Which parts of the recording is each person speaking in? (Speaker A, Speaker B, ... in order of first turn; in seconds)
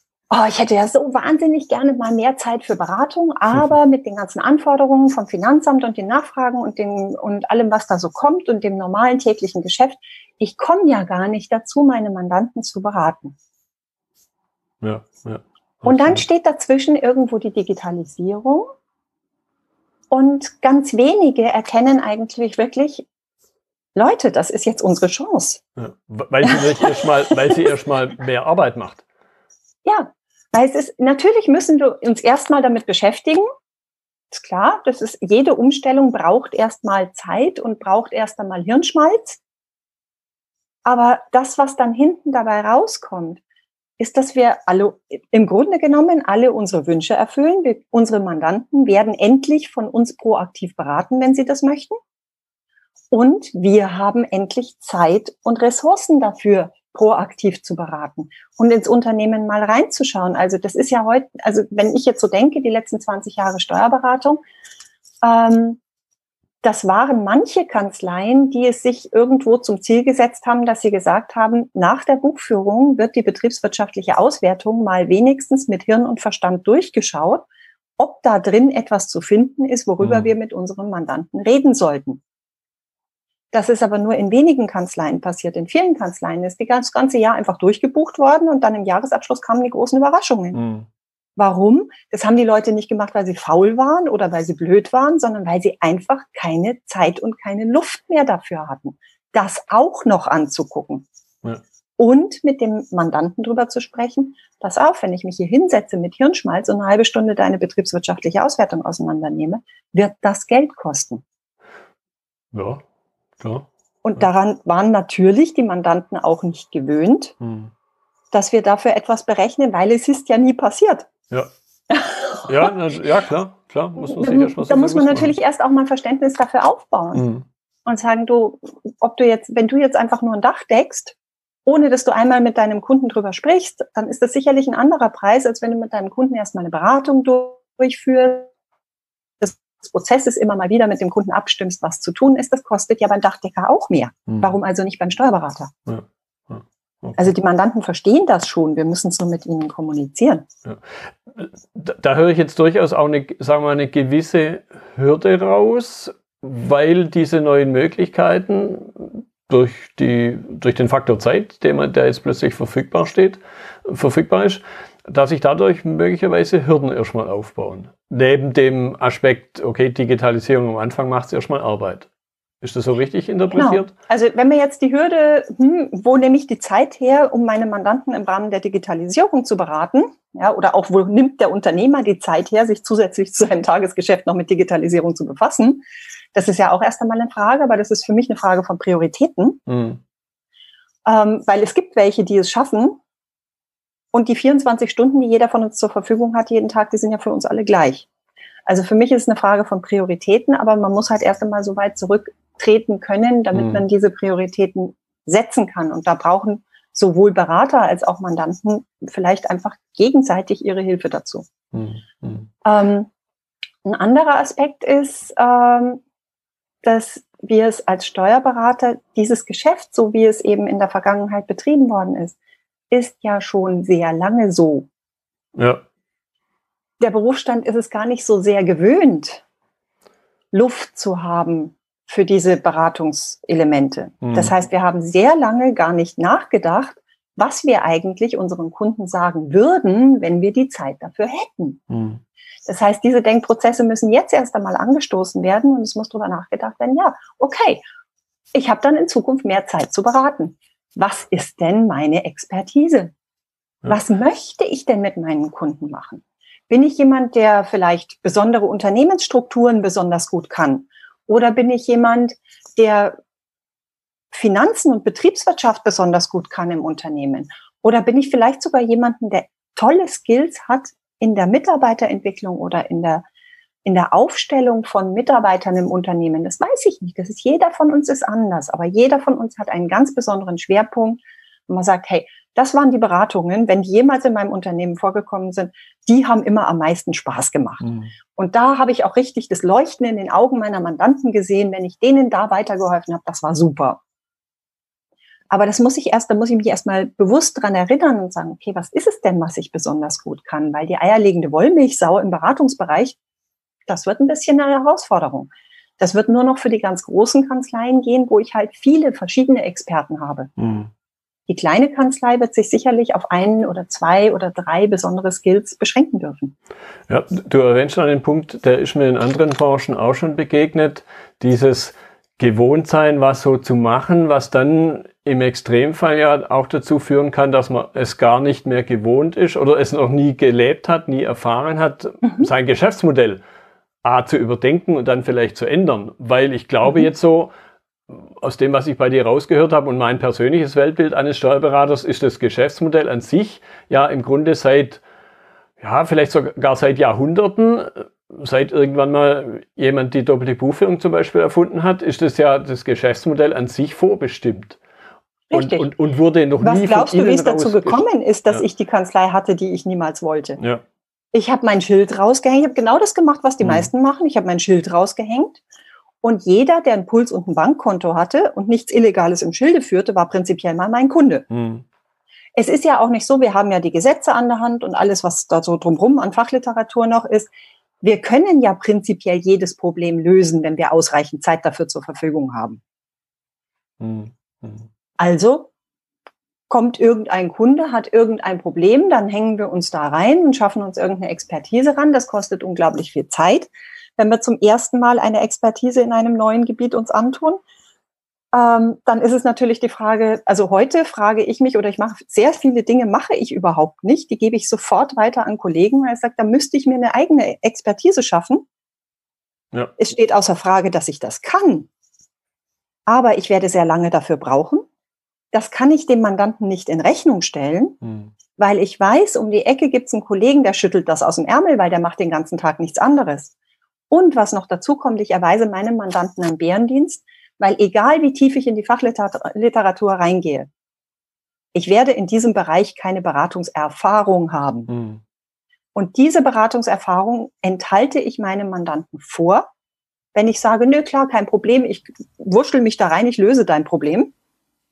Speaker A: 0.3-13.3, 15.8-18.7, 20.1-23.1, 23.9-25.6, 26.4-26.9, 29.8-33.5, 34.3-39.4, 40.9-43.4, 44.0-52.0, 53.1-64.4, 65.2-65.8, 66.6-77.5, 78.0-82.2, 83.5-90.6, 91.4-101.0, 102.0-111.2, 114.0-117.3, 118.3-121.1, 121.9-122.7, 124.0-127.2, 127.8-138.5, 139.4-145.7, 147.2-150.4, 173.5-189.6, 191.0-193.0, 194.1-198.1, 198.7-211.5, 212.6-213.1, 213.8-216.0, 216.8-222.3, 222.9-224.9, 227.0-229.4, 230.5-241.8, 242.7-247.8, 248.5-253.1, 253.9-263.1, 264.3-273.2, 273.8-294.0, 295.5-303.2, 303.9-310.5, 311.5-316.5, 355.5-355.9, 356.6-360.6, 361.3-365.6, 366.2-371.4, 372.5-377.5, 378.0-382.8, 385.2-385.7, 386.7-397.6, 398.5-408.6, 410.0-411.9, 413.1-414.9, 415.5-418.0, 418.6-423.5, 424.1-430.7, 431.7-434.9, 435.9-439.7, 440.3-444.3
Speaker B: 14.8-16.2, 25.8-29.0, 80.0-80.3, 90.5-90.9, 112.5-112.8, 113.4-114.2, 117.4-117.7, 122.4-125.3, 127.1-127.4, 145.9-147.2, 150.6-172.1, 172.6-173.9, 189.7-190.0, 203.5-203.8, 211.7-212.5, 225.6-225.8, 234.2-234.5, 241.9-242.2, 287.8-288.1, 310.6-310.9, 317.1-333.4, 334.0-337.5, 338.1-345.0, 345.8-354.8, 355.5-358.6, 363.6-363.9, 371.5-371.8, 384.0-384.9, 418.0-418.3, 434.9-435.2